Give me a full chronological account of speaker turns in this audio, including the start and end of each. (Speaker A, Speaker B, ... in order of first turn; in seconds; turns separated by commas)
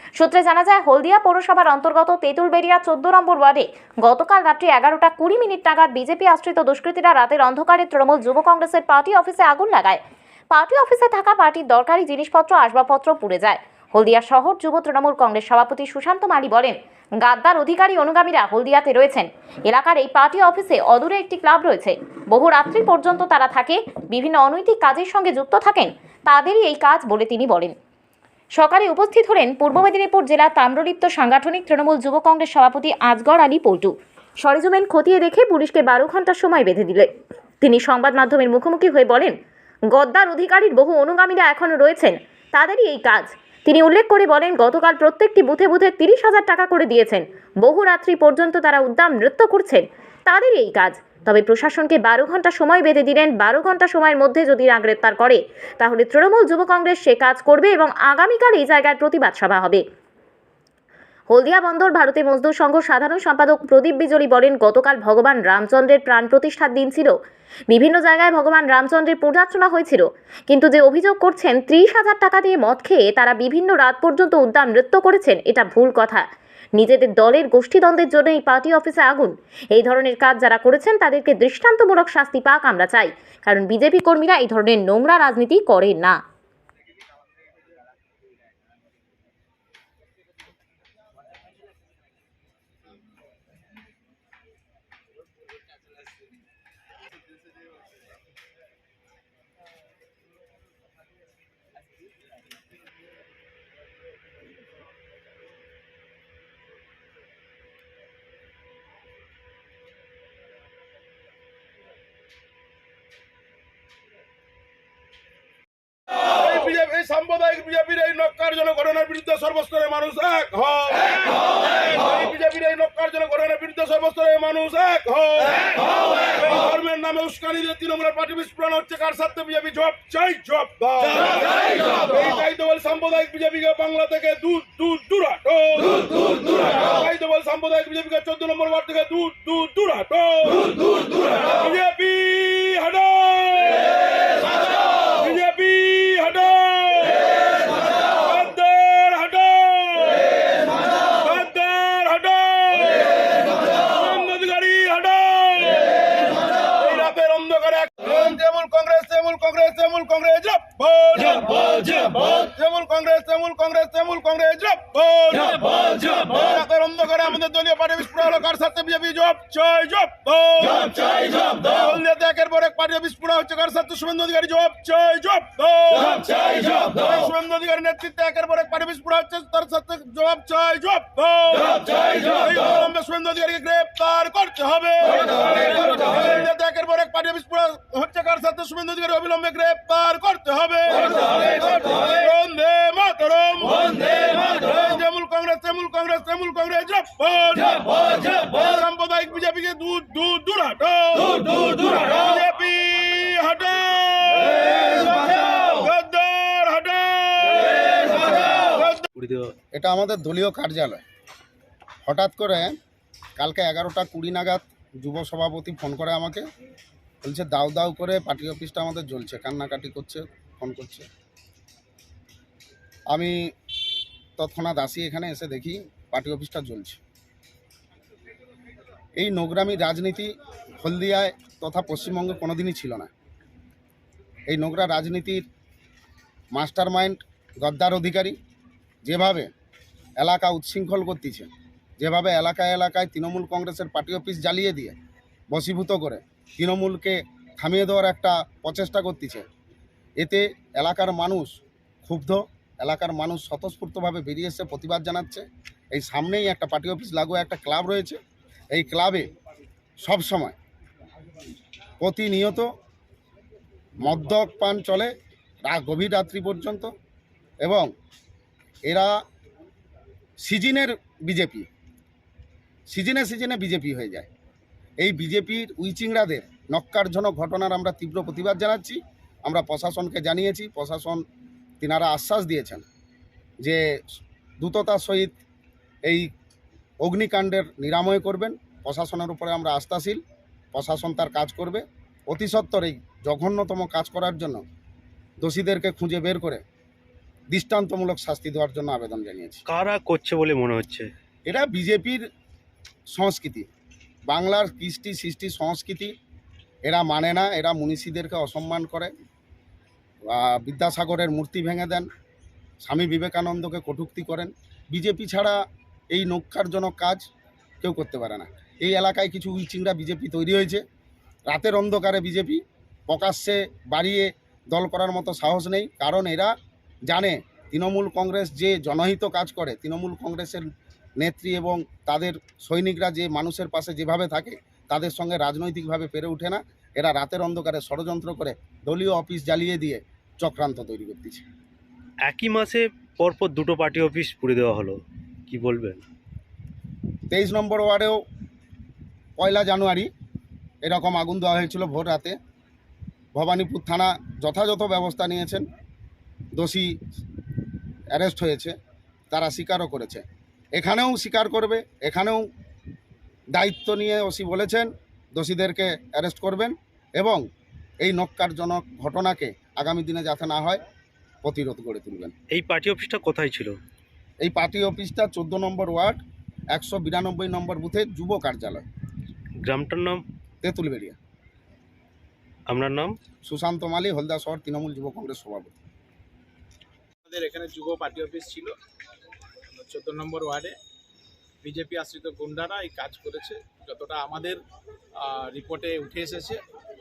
Speaker A: 0.2-10.0, Speaker A: 10.5-27.7, Speaker A: 28.6-37.1, Speaker A: 37.6-39.4, Speaker A: 39.9-59.8, Speaker A: 61.3-67.2, Speaker A: 67.7-76.2, Speaker A: 76.8-86.2, Speaker B: 116.3-125.7, Speaker B: 126.3-140.7, Speaker B: 141.5-143.9, Speaker B: 145.2-147.2, Speaker B: 148.2-150.2, Speaker B: 151.2-153.2, Speaker B: 153.9-155.9, Speaker B: 156.8-209.0, Speaker C: 209.2-209.5, Speaker D: 209.7-211.0, Speaker D: 212.1-212.8, Speaker D: 213.4-216.4, Speaker D: 217.2-221.1, Speaker D: 223.1-223.4, Speaker D: 224.4-227.0, Speaker D: 229.2-233.1, Speaker D: 234.5-235.4, Speaker D: 236.5-238.4, Speaker D: 239.0-239.5, Speaker D: 240.2-245.0, Speaker D: 245.5-249.4, Speaker D: 250.2-251.5, Speaker D: 252.1-258.2, Speaker D: 258.7-259.3, Speaker D: 260.0-260.6, Speaker D: 262.0-262.7, Speaker D: 264.0-265.1, Speaker D: 265.7-266.9, Speaker D: 267.6-267.9, Speaker D: 268.9-269.2, Speaker D: 270.4-271.7, Speaker D: 272.9-274.3, Speaker D: 275.0-281.2, Speaker D: 281.8-282.8, Speaker D: 284.6-285.4, Speaker D: 287.0-290.2, Speaker D: 290.7-294.6, Speaker D: 295.4-296.6, Speaker D: 297.5-299.6, Speaker C: 299.7-301.1, Speaker D: 301.5-302.2, Speaker D: 303.1-303.7, Speaker D: 304.3-306.1, Speaker D: 306.9-309.1, Speaker D: 310.3-312.1, Speaker D: 312.8-317.3, Speaker D: 317.8-320.8, Speaker D: 321.5-326.5, Speaker D: 327.1-330.6, Speaker D: 331.2-341.4, Speaker C: 342.2-346.0, Speaker D: 347.3-348.2, Speaker D: 349.4-350.1, Speaker D: 350.8-352.4, Speaker D: 353.4-355.6, Speaker D: 356.6-356.9, Speaker D: 358.1-358.7, Speaker D: 359.3-360.2, Speaker D: 360.8-362.4, Speaker D: 363.5-367.4, Speaker D: 368.0-370.8, Speaker D: 371.4-372.3, Speaker C: 372.5-373.8, Speaker D: 374.4-376.2, Speaker D: 376.7-378.8, Speaker C: 379.6-380.2, Speaker D: 380.6-381.2, Speaker C: 382.7-383.2, Speaker D: 383.4-385.8, Speaker E: 387.3-388.8, Speaker E: 389.7-390.8, Speaker E: 391.6-394.6, Speaker E: 395.2-396.6